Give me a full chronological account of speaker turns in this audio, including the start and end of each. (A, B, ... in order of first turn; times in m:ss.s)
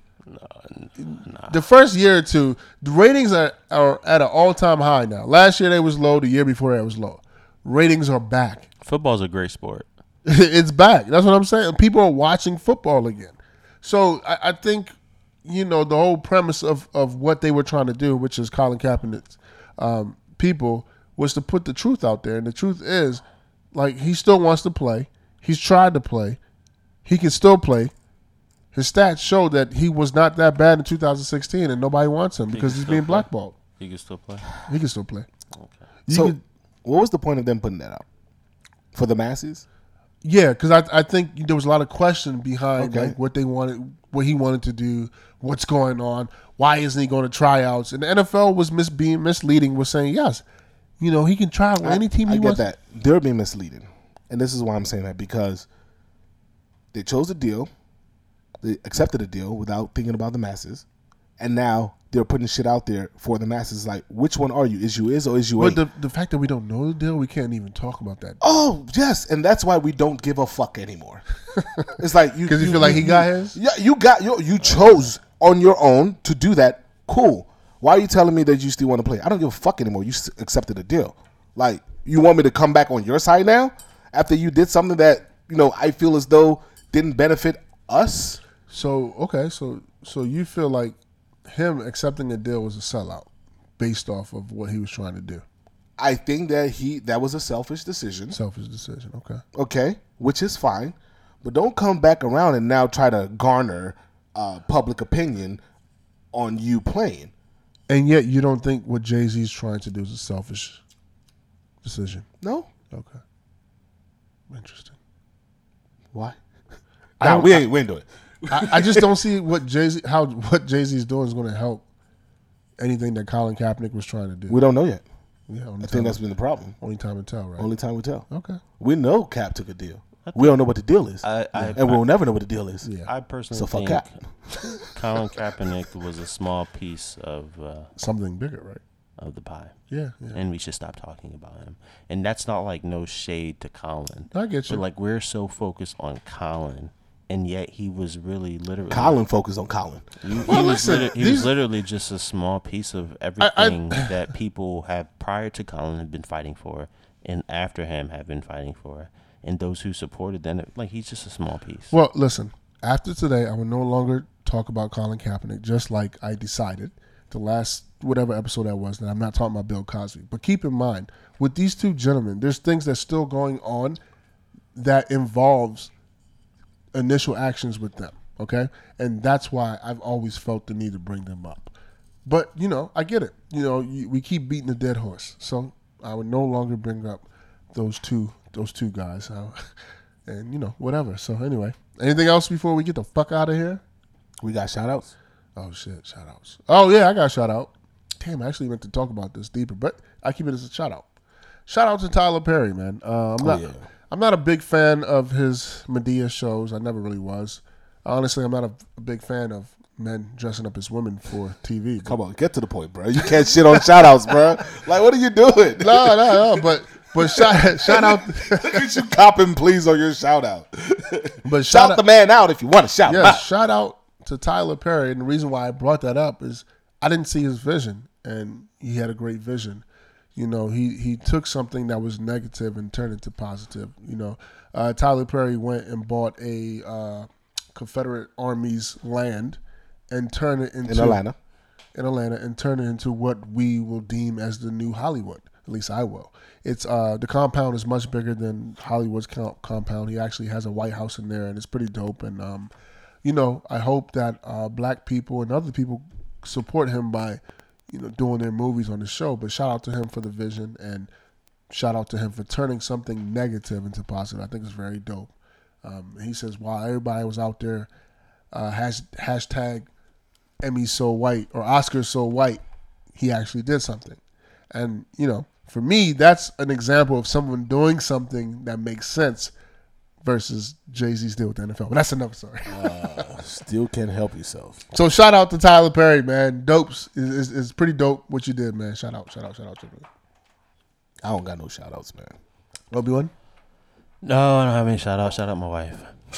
0:00.2-0:01.6 A
0:01.1-0:08.7 B
0:08.8-0:09.9 A
0:10.3-0:14.9 B
0:15.4-0:23.2 B
0:23.7-0:26.4 B
0:27.1-0:27.9 B
0:28.7-0:33.6 B
0:32.5-0:34.5 A
0:34.6-0:35.3 B
0:36.1-0:36.4 B
0:36.1-0:38.0 C
0:38.9-0:39.6 C
0:40.2-0:50.4 B
0:42.8-0:43.2 C
0:51.0-0:52.6 B
0:51.8-0:55.7 C
0:56.9-0:57.7 C
0:58.6-1:00.8 C
1:01.4-1:05.8 C
1:05.6-1:08.4 B
1:08.4-1:11.2 C
1:11.6-1:11.9 B
1:12.0-1:28.4 C
1:12.5-1:13.6 B
1:28.7-1:31.0 B
1:31.5-1:33.3 B
1:33.8-1:35.4 B
1:36.0-1:38.4 C
1:38.3-1:39.4 B
1:39.6-1:45.6 C
1:46.3-1:47.3 C
1:47.9-1:50.8 B
1:51.8-1:52.3 B
1:52.4-1:52.7 C
1:52.9-1:53.2 B
1:54.5-1:54.9 B
1:57.2-1:57.7 B
1:57.2-1:59.1 C
1:58.5-2:01.8 B
2:02.8-2:04.6 B
2:04.5-2:05.0 C
2:05.5-2:06.2 B
2:05.8-2:06.8 C
2:06.8-2:07.7 B
2:07.6-2:08.2 C
2:08.3-2:08.6 B
2:08.8-2:11.2 C
2:10.2-2:10.6 A
2:11.2-2:12.0 A
2:11.8-2:12.9 C
2:12.8-2:13.1 B
2:13.0-2:14.2 A
2:13.5-2:14.1 C
2:14.9-2:17.9 A
2:18.0-2:18.8 B
2:19.2-2:19.7 A
2:19.9-2:20.4 B
2:20.3-2:29.2 A
2:24.3-2:24.8 B
2:28.9-2:31.0 C
2:30.2-2:41.9 A
2:30.4-2:31.5 B
2:33.4-2:34.2 B
2:41.9-2:54.0 B
2:54.8-2:55.9 B
2:56.9-3:01.7 B
3:02.2-3:09.6 B
3:10.3-3:13.8 B
3:14.4-3:15.1 C
3:15.6-3:21.1 B
3:21.7-3:32.1 B
3:23.4-3:23.8 C
3:32.0-3:43.4 C
3:35.8-3:38.8 B
3:41.4-3:42.0 B
3:43.1-3:49.8 B
3:50.4-3:59.6 B
4:00.1-4:01.2 B
4:00.9-4:01.4 C
4:02.0-4:12.7 B
4:13.2-4:17.4 B
4:17.9-4:21.1 B
4:21.7-4:25.3 B
4:25.8-4:27.9 B
4:28.5-4:29.9 B
4:30.6-4:32.6 B
4:33.2-4:34.2 B
4:34.7-4:39.5 B
4:40.2-4:43.2 B
4:42.7-4:44.8 C
4:44.9-4:50.0 B
4:51.2-4:52.3 C
4:52.9-4:53.3 B
4:54.2-4:56.1 A